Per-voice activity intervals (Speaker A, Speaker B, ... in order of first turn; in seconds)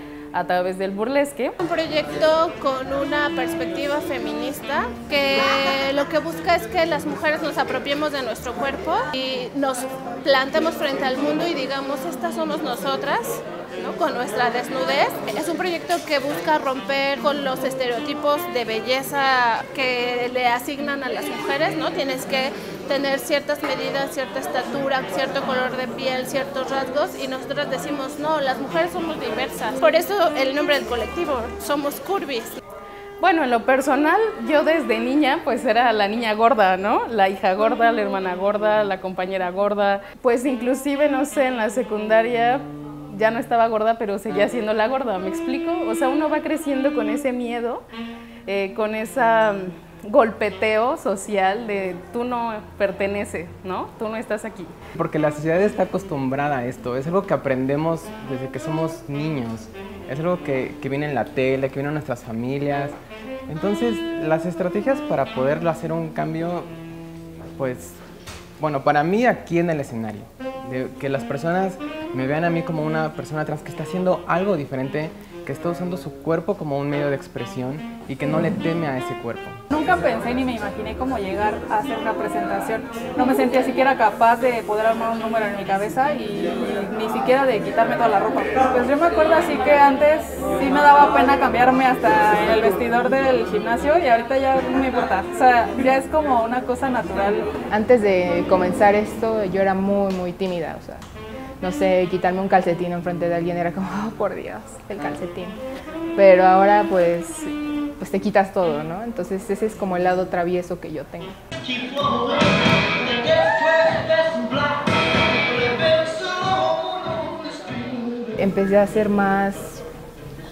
Speaker A: 0.3-1.6, 33.2-47.8, 48.5-54.7
Speaker B: 1.6-32.6
Speaker C: 55.0-63.0, 63.5-66.7, 67.6-68.0, 68.6-79.6
Speaker D: 79.7-97.5
Speaker E: 97.7-101.0, 101.6-105.6, 106.2-111.3, 118.4-119.8